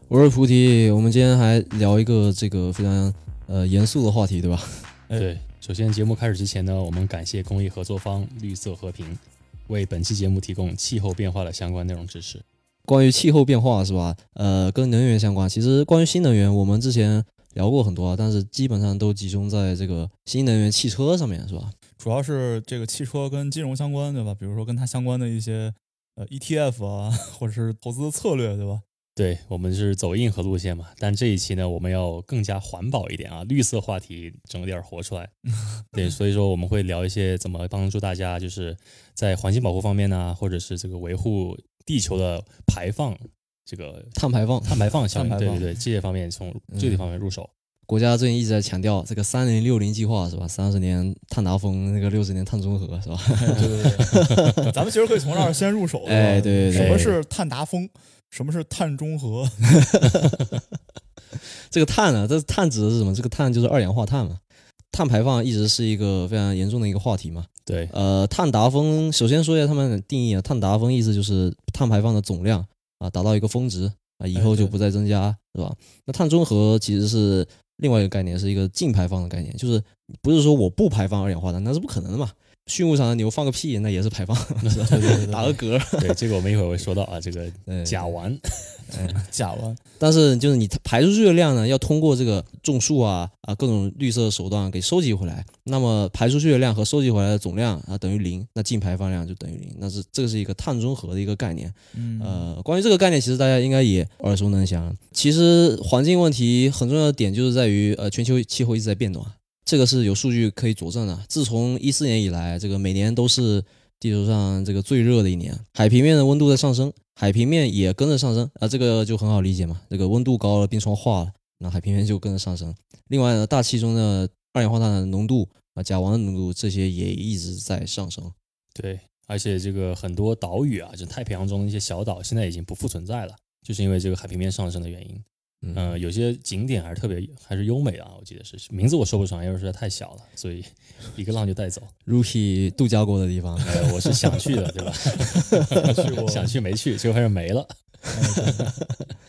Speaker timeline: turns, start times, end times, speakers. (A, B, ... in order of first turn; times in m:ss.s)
0:00.1-0:04.9 A
0:05.2-0:12.4 B
0:12.9-0:21.8 A
0:22.0-0:28.8 C
0:29.2-0:35.4 B
0:35.9-0:47.5 B
0:44.2-0:44.8 A
0:45.1-0:45.7 C
0:46.7-0:47.1 A
0:47.9-0:54.7 A
0:53.4-0:54.1 C
0:54.1-0:54.6 B
0:54.7-0:59.9 C
0:56.0-0:57.1 A
0:56.7-0:57.2 B
0:59.8-1:00.4 A
1:01.3-1:04.4 A
1:04.9-1:26.2 A
1:07.7-1:07.9 B
1:14.4-1:14.7 C
1:24.6-1:25.3 B
1:24.9-1:25.6 C
1:26.0-1:28.9 B
1:27.7-1:28.1 A
1:28.9-1:29.3 A
1:29.2-1:29.8 C
1:30.0-2:08.4 A
1:41.9-1:42.5 C
2:08.8-2:21.9 B
2:15.6-2:16.0 A
2:22.1-2:24.4 A
2:23.6-2:27.7 B
2:25.3-2:25.9 A
2:25.8-2:26.5 C
2:28.1-2:28.7 C
2:28.4-2:28.7 B